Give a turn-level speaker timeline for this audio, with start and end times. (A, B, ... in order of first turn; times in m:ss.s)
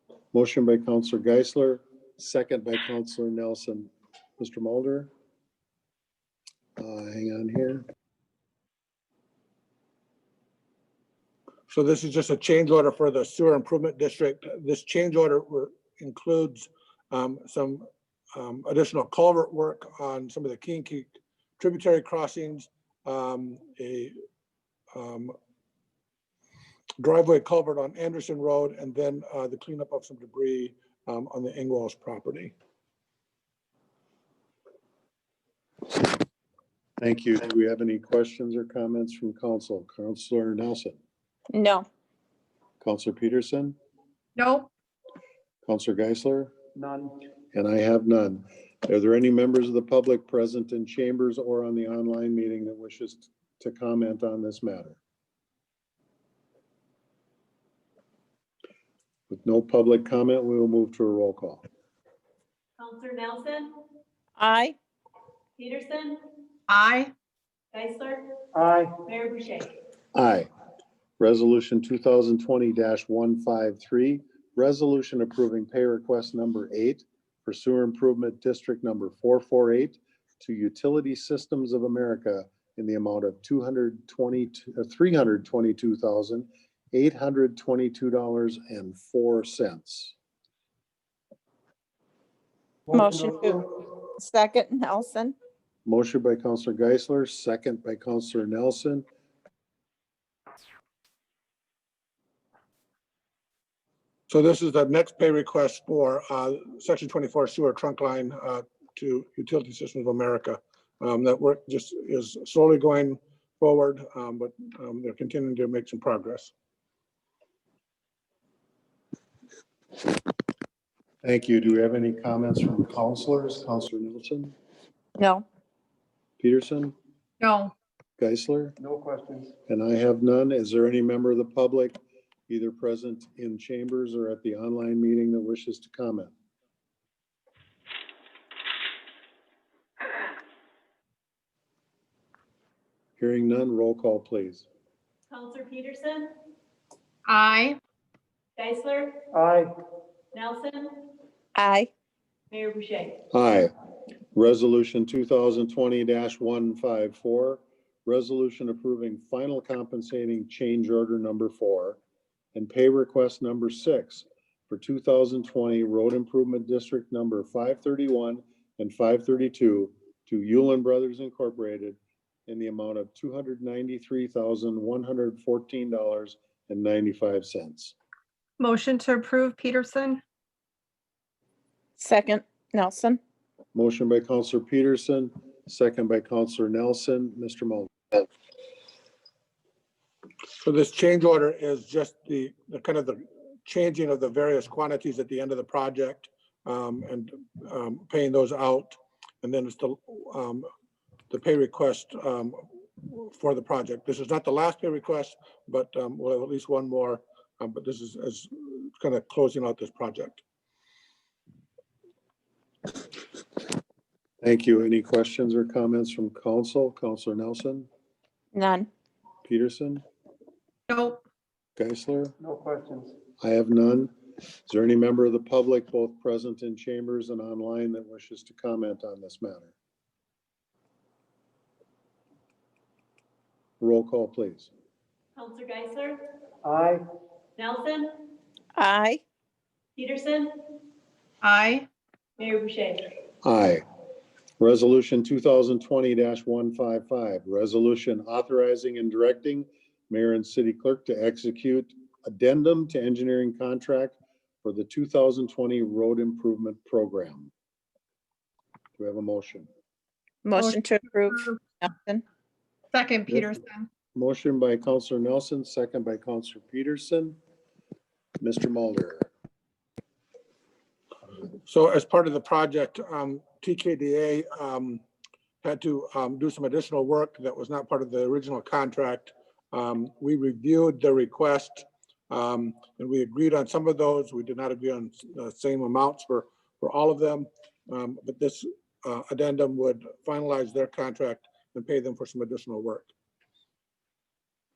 0:00.3-0:05.1 A
0:06.8-0:07.8 A
0:11.7-0:24.1 B
0:24.9-0:25.3 B
0:27.0-0:32.5 B
0:37.0-0:41.0 A
0:41.5-0:41.8 C
0:42.8-0:43.8 A
0:44.4-0:44.7 D
0:45.6-0:46.5 A
0:46.8-0:47.1 E
0:47.5-0:55.0 A
0:59.3-1:01.6 A
1:02.8-1:03.6 D
1:02.9-1:03.7 F
1:04.4-1:04.8 C
1:05.6-1:06.2 F
1:05.6-1:06.0 D
1:06.7-1:07.1 D
1:07.7-1:08.2 F
1:07.8-1:08.1 D
1:08.5-1:08.9 E
1:09.1-1:09.6 F
1:10.1-1:10.5 A
1:11.2-1:30.1 A
1:32.9-1:33.5 E
1:32.9-1:35.3 C
1:35.8-1:39.0 A
1:44.3-1:56.5 B
2:01.2-2:04.5 A
2:05.2-2:05.4 C
2:06.4-2:06.9 A
2:07.4-2:07.7 D
2:08.2-2:08.8 A
2:08.8-2:09.5 E
2:09.7-2:12.0 A
2:12.5-2:16.3 A
2:23.2-2:24.6 A
2:25.3-2:26.2 D
2:25.4-2:26.3 F
2:27.3-2:27.8 D
2:28.6-2:29.2 F
2:28.6-2:29.0 D
2:29.3-2:29.7 E
2:30.4-2:31.1 F
2:31.6-2:31.9 C
2:32.5-2:33.0 D
2:32.5-2:33.2 F
2:33.3-2:33.7 A
2:34.3-2:42.0 A
2:42.5-2:57.9 A
2:58.6-3:00.2 D
3:02.0-3:03.2 C
3:03.7-3:07.9 A
3:10.6-3:20.7 B
3:21.3-3:30.4 B
3:34.4-3:37.9 A
3:38.5-3:38.9 C
3:39.4-3:40.0 A
3:40.9-3:41.2 D
3:41.8-3:42.3 A
3:42.4-3:43.1 E
3:43.4-3:44.1 A
3:44.6-3:49.7 A
3:53.8-3:54.7 A
3:55.4-3:56.2 F
3:55.4-3:56.0 D
3:56.6-3:57.0 E
3:57.6-3:58.2 F
3:57.6-3:57.9 D
3:58.8-3:59.2 C
4:00.0-4:00.5 F
4:01.4-4:01.9 D
4:02.4-4:02.9 D
4:02.4-4:02.9 F
4:03.4-4:03.8 A
4:04.6-4:17.5 A
4:19.0-4:19.7 A
4:20.4-4:22.2 C
4:22.9-4:23.9 D
4:24.1-4:27.4 A
4:28.4-4:29.3 A
4:31.6-4:35.0 B
4:35.6-4:53.1 B